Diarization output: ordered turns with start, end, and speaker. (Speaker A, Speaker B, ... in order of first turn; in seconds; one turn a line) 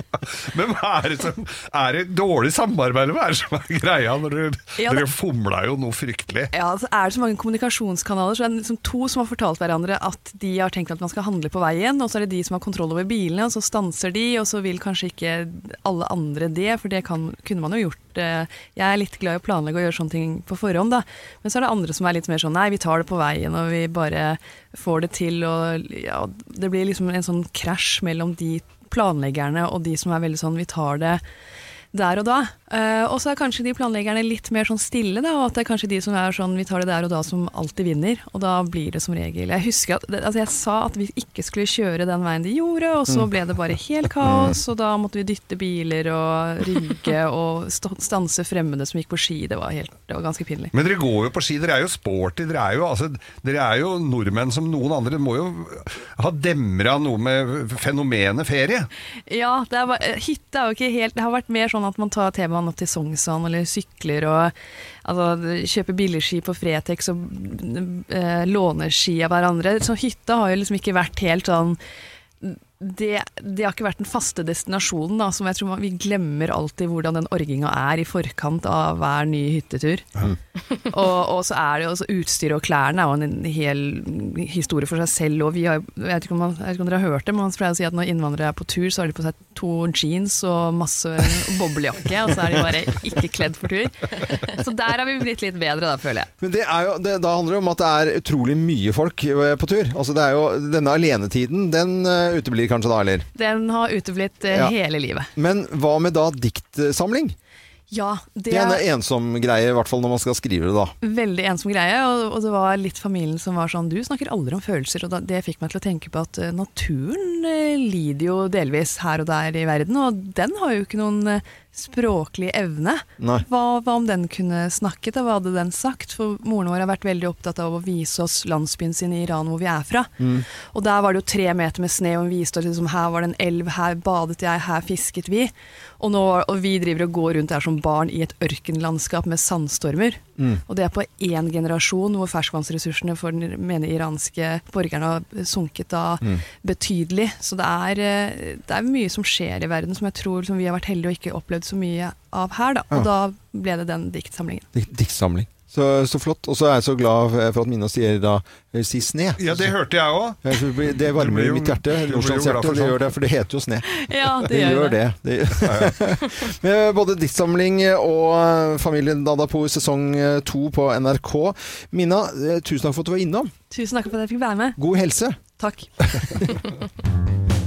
Speaker A: 0.5-6.5
Speaker B: 4.8-5.1
Speaker B: 6.5-31.2
Speaker B: 31.9-50.7
Speaker C: 44.2-44.5
Speaker A: 50.7-58.9
Speaker B: 59.3-71.8
Speaker B: 72.4-80.1
Speaker B: 80.9-96.3
Speaker C: 96.4-103.3
Speaker B: 103.4-105.3
Speaker C: 105.4-107.4
Speaker B: 107.9-108.9
Speaker C: 108.5-110.9
Speaker B: 111.0-154.7
Speaker C: 123.2-123.5
Speaker C: 130.2-130.5
Speaker C: 140.4-140.6
Speaker C: 154.7-159.7
Speaker A: 159.4-163.0
Speaker C: 160.4-173.5
Speaker B: 163.9-165.0
Speaker A: 165.6-165.9
Speaker B: 173.7-174.8
Speaker C: 174.8-175.4
Speaker B: 175.6-175.9
Speaker C: 176.2-176.4